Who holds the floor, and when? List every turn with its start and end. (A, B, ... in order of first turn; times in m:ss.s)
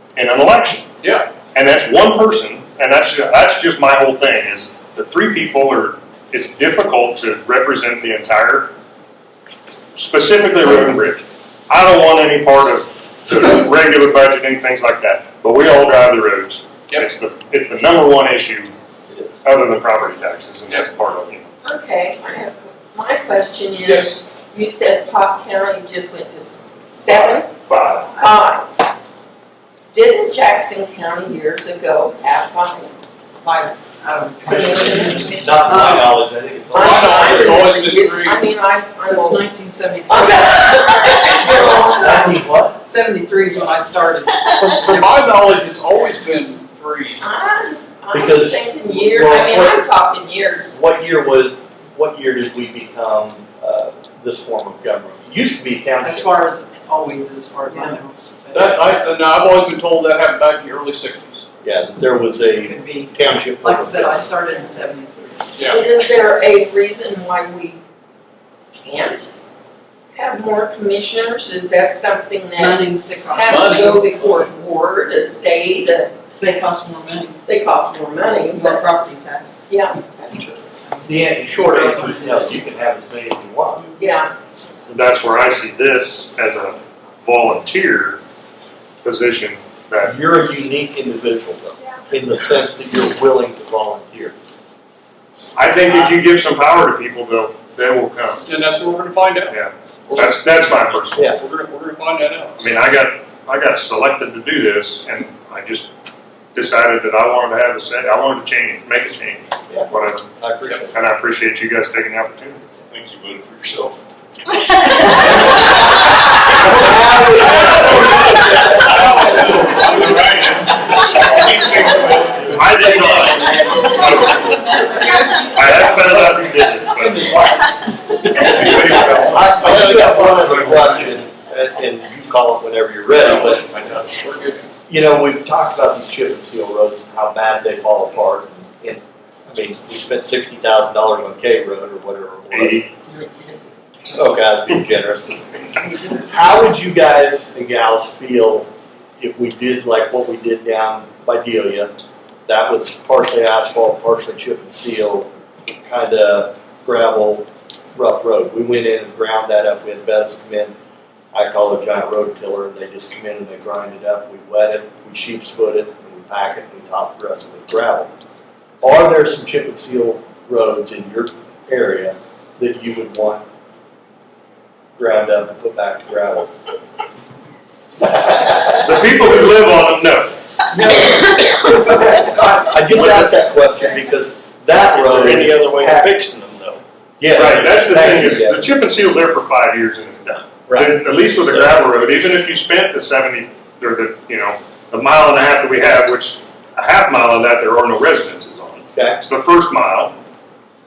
0:00.2-0:00.9 A
0:01.0-0:01.3 B
0:01.5-0:08.7 A
0:10.0-0:18.7 A
0:19.4-0:21.5 A
0:21.6-0:27.5 C
0:23.8-0:24.2 B
0:27.1-0:28.2 A
0:28.2-0:28.7 C
0:29.9-0:32.9 C
0:33.4-0:36.2 D
0:34.5-0:35.8 C
0:34.5-0:37.8 E
0:36.7-0:38.4 B
0:36.8-0:39.4 C
0:39.0-0:45.2 D
0:40.1-0:42.2 C
0:41.5-0:42.8 E
0:44.5-0:47.3 B
0:47.2-0:50.8 C
0:48.1-0:49.9 E
0:50.7-0:56.3 E
0:56.0-0:59.0 D
0:58.5-1:01.5 B
1:01.6-1:04.3 E
1:02.6-1:05.7 D
1:05.6-1:05.9 B
1:05.7-1:07.8 C
1:08.8-1:09.3 C
1:10.1-1:16.2 C
1:12.6-1:14.0 D
1:13.4-1:14.5 B
1:16.4-1:17.4 D
1:17.4-1:18.9 C
1:18.5-1:19.6 D
1:19.7-1:20.7 C
1:20.8-1:22.5 D
1:21.0-1:23.9 E
1:24.0-1:24.3 C
1:24.9-1:28.2 A
1:29.0-1:30.1 A
1:30.0-1:34.3 E
1:35.6-1:38.4 A
1:38.4-1:42.8 B
1:39.5-1:41.3 A
1:42.6-1:45.9 A
1:46.6-1:50.3 A
1:49.7-1:50.9 E
1:50.9-1:52.6 A
1:52.9-1:54.0 B
1:55.0-1:55.7 B
1:56.5-2:03.6 B
2:02.5-2:07.3 A
2:02.8-2:03.9 D
2:05.0-2:05.4 D
2:05.9-2:11.2 B
2:08.5-2:13.7 E
2:13.1-2:14.7 B
2:14.9-2:22.9 E
2:22.5-2:22.9 A
2:24.1-2:28.7 E
2:29.2-2:31.9 E
2:32.5-2:35.3 E
2:35.8-2:40.7 E
2:41.3-2:48.1 E
2:48.8-2:53.4 E
2:55.0-2:56.5 E
2:58.0-2:58.6 E
2:58.6-3:00.3 A
3:00.8-3:06.2 E
3:03.0-3:03.3 F
3:04.8-3:06.8 F
3:07.2-3:08.7 E
3:07.3-3:20.2 A
3:10.7-3:11.7 E